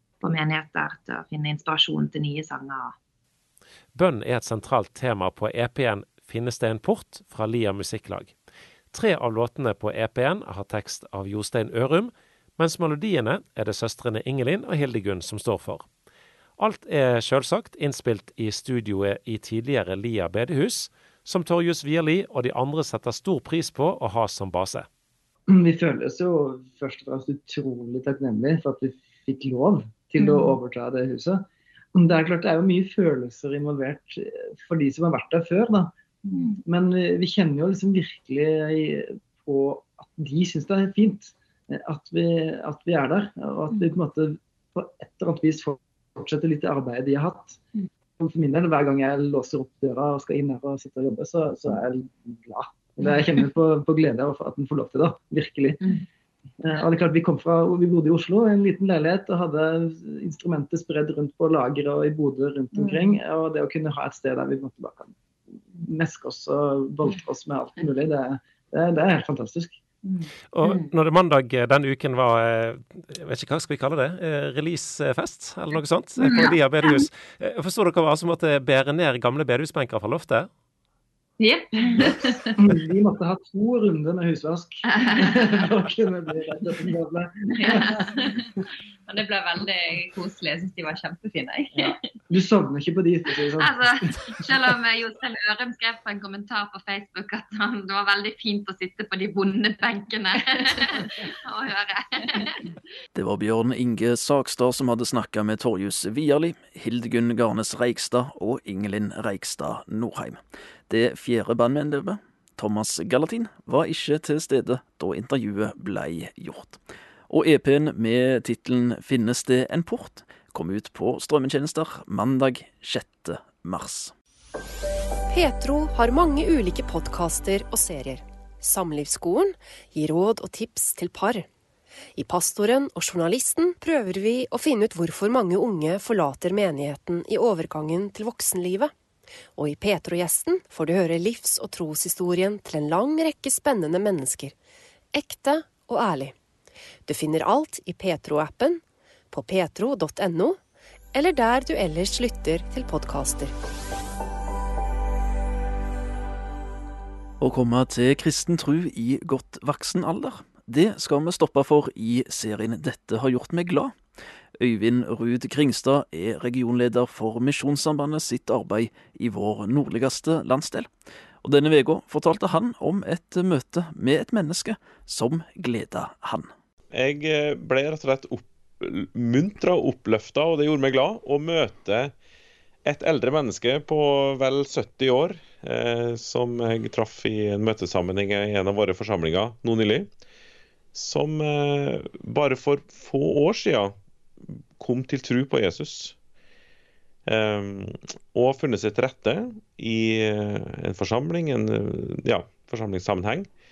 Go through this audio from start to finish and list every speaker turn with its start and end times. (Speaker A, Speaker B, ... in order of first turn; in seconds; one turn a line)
Speaker A: 0.2-3.0
Speaker B: 3.9-8.4
Speaker B: 8.9-15.9
Speaker B: 16.6-24.9
Speaker C: 25.5-35.9
Speaker A: 30.2-30.6
Speaker A: 36.2-36.6
Speaker C: 36.7-47.6
Speaker C: 48.2-55.8
Speaker C: 56.6-65.2
Speaker A: 62.7-63.2
Speaker C: 65.8-69.8
Speaker A: 70.0-70.9
Speaker B: 70.5-80.5
Speaker A: 76.2-76.5
Speaker A: 81.4-82.6
Speaker C: 82.6-88.1
Speaker A: 84.9-85.6
Speaker A: 87.5-92.2
Speaker C: 91.8-93.8
Speaker A: 93.4-102.7
Speaker D: 103.2-124.1
Speaker E: 125.3-131.5
Speaker E: 132.2-138.9
Speaker E: 139.6-144.6
Speaker E: 145.1-146.3
Speaker E: 147.1-150.6
Speaker E: 151.2-153.5
Speaker D: 157.4-164.0
Speaker D: 164.6-170.9
Speaker D: 171.4-176.5
Speaker F: 176.9-182.1
Speaker F: 182.8-190.1
Speaker F: 190.9-194.0
Speaker F: 194.8-196.2
Speaker F: 197.3-203.5